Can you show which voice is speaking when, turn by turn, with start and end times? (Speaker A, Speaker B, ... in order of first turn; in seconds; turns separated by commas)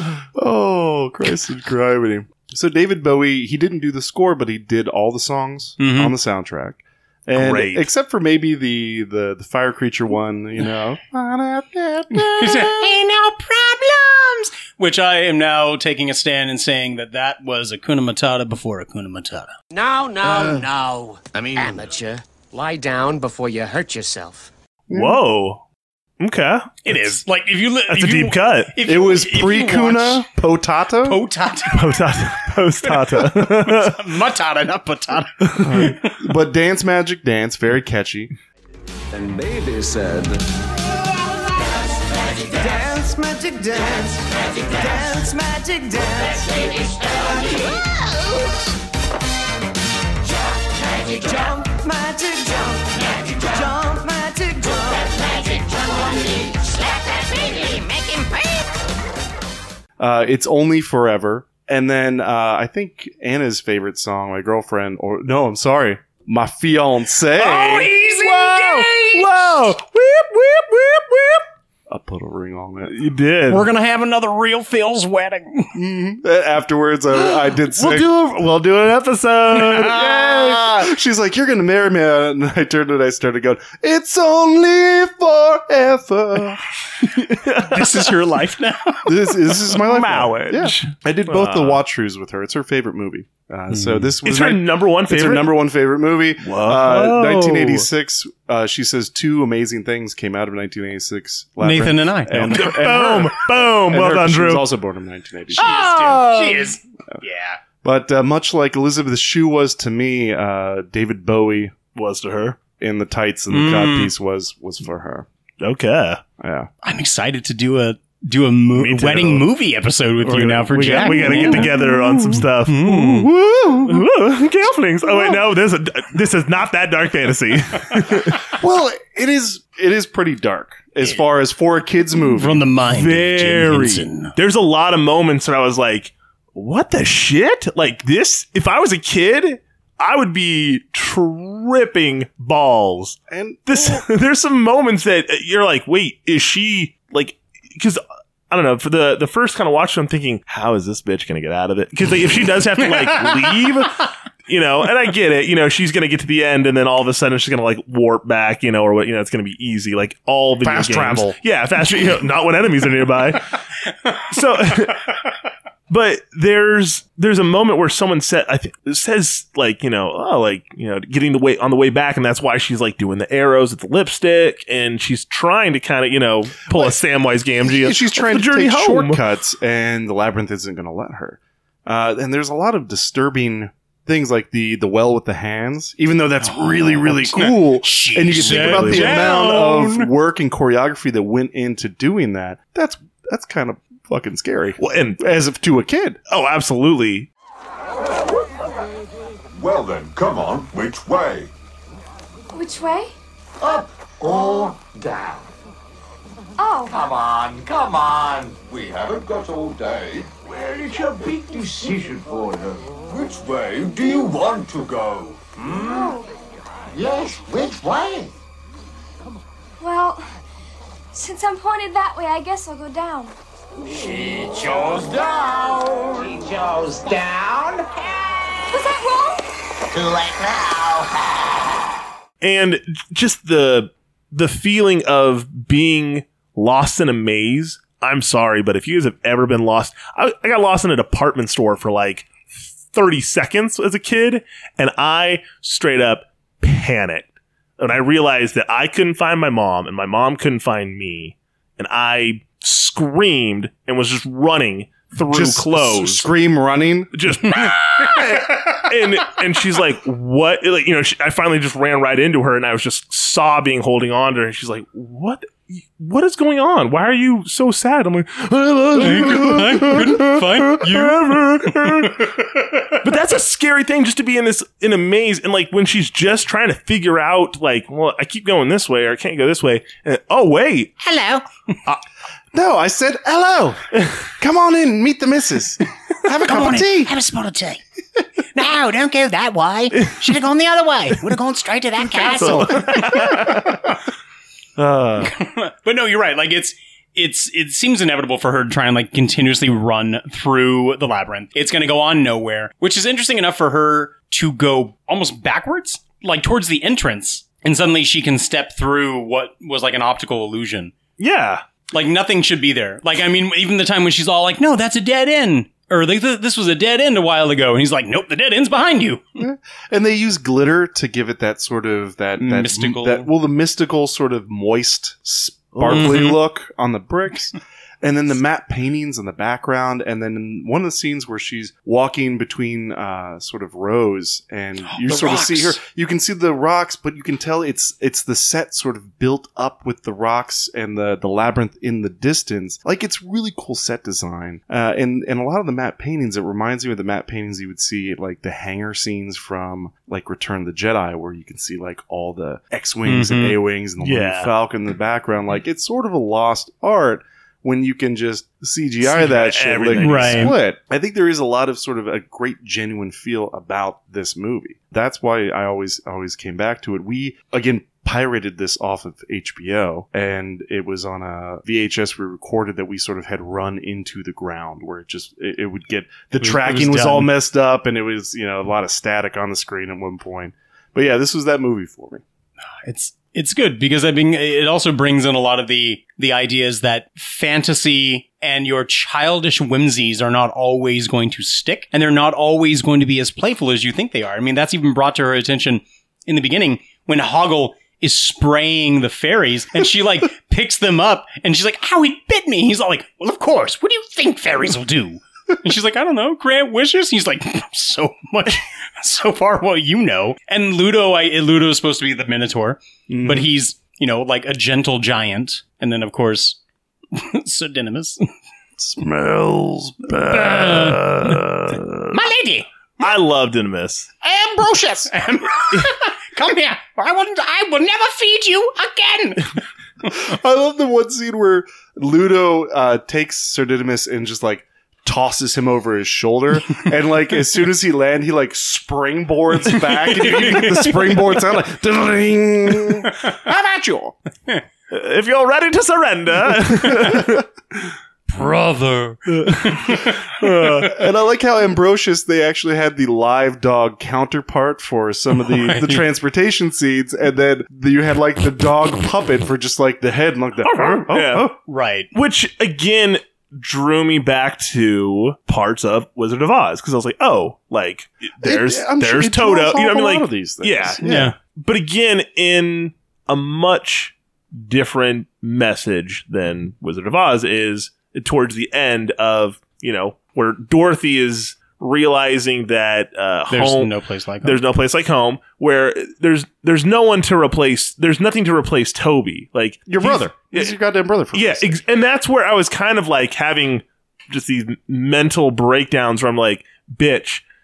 Speaker A: 0.3-12.9, Speaker B: 5.8-6.1, Speaker C: 7.3-7.9, Speaker B: 12.1-19.5, Speaker D: 19.7-24.5, Speaker A: 24.9-25.2, Speaker C: 24.9-25.6, Speaker C: 26.2-27.1, Speaker B: 26.8-30.2, Speaker C: 27.9-28.7, Speaker A: 28.8-31.2, Speaker B: 31.0-31.9, Speaker C: 31.7-34.0, Speaker B: 32.8-36.1, Speaker A: 35.6-38.3, Speaker E: 42.6-46.5, Speaker E: 51.6-52.7, Speaker E: 53.6-54.9, Speaker A: 60.0-67.9, Speaker B: 67.4-69.7, Speaker C: 68.2-71.4, Speaker A: 71.9-73.1, Speaker C: 72.9-73.7, Speaker B: 73.5-75.7, Speaker A: 75.7-78.1, Speaker C: 77.2-80.9, Speaker A: 79.5-86.6, Speaker C: 87.1-88.1, Speaker B: 87.7-89.4, Speaker A: 89.0-106.2, Speaker C: 89.7-91.8, Speaker B: 93.7-94.1, Speaker C: 94.2-95.6, Speaker C: 96.4-97.9, Speaker B: 101.6-102.8, Speaker C: 102.5-104.7, Speaker C: 105.5-106.7, Speaker B: 105.6-107.6, Speaker A: 107.8-111.8, Speaker C: 111.9-112.6, Speaker A: 112.8-115.2, Speaker B: 113.5-114.1, Speaker C: 115.6-116.2, Speaker A: 116.4-116.7, Speaker B: 116.8-121.8, Speaker C: 118.8-119.5, Speaker C: 120.2-128.5, Speaker A: 120.7-122.4, Speaker B: 122.6-123.3, Speaker A: 123.5-124.0, Speaker A: 128.4-132.7, Speaker B: 132.3-134.3, Speaker C: 132.9-163.6, Speaker A: 143.3-144.0, Speaker A: 160.6-161.4, Speaker C: 164.3-165.0, Speaker C: 165.9-179.2, Speaker A: 177.6-196.2, Speaker B: 186.4-190.1, Speaker C: 188.3-189.8, Speaker C: 194.8-195.2, Speaker C: 196.3-197.3, Speaker F: 199.5-201.5, Speaker G: 202.5-203.1, Speaker F: 203.6-205.5, Speaker G: 206.6-207.0, Speaker F: 206.9-216.2, Speaker F: 216.9-218.3, Speaker G: 219.8-220.2, Speaker G: 221.1-223.3, Speaker F: 223.8-227.8, Speaker G: 228.7-229.4, Speaker F: 229.9-231.2, Speaker C: 232.4-247.3, Speaker C: 247.8-256.3, Speaker A: 255.3-257.4, Speaker C: 257.1-272.4, Speaker B: 269.0-272.8, Speaker C: 273.0-281.0, Speaker B: 281.0-281.4, Speaker A: 282.5-283.8, Speaker A: 284.4-287.1, Speaker B: 286.5-287.8, Speaker B: 288.5-293.6, Speaker C: 289.9-290.2, Speaker A: 292.2-293.3, Speaker C: 292.3-293.9, Speaker C: 294.8-295.2, Speaker A: 294.9-295.2, Speaker B: 295.3-310.9, Speaker C: 311.2-311.6, Speaker B: 311.9-319.2, Speaker A: 319.4-382.2, Speaker B: 322.4-323.3, Speaker B: 325.8-326.4, Speaker C: 325.9-326.2, Speaker B: 334.9-335.8, Speaker B: 353.0-353.6, Speaker C: 354.0-354.5, Speaker C: 359.0-360.6, Speaker B: 360.0-360.6, Speaker B: 376.4-377.3, Speaker B: 382.8-416.6, Speaker A: 413.1-413.5, Speaker B: 417.1-418.3, Speaker A: 418.8-421.0, Speaker B: 420.3-421.0, Speaker C: 420.3-422.1, Speaker B: 422.1-422.7, Speaker C: 423.0-424.1, Speaker B: 425.0-429.5, Speaker A: 430.0-444.1, Speaker B: 439.7-441.3, Speaker C: 444.9-447.4, Speaker B: 448.3-450.8, Speaker C: 449.3-451.0, Speaker A: 450.8-461.5, Speaker B: 455.4-456.0, Speaker C: 460.6-461.5, Speaker B: 461.6-462.1, Speaker C: 462.1-490.7, Speaker A: 468.4-471.3, Speaker B: 471.0-471.3, Speaker B: 483.5-484.6, Speaker A: 489.9-491.8, Speaker C: 491.3-497.4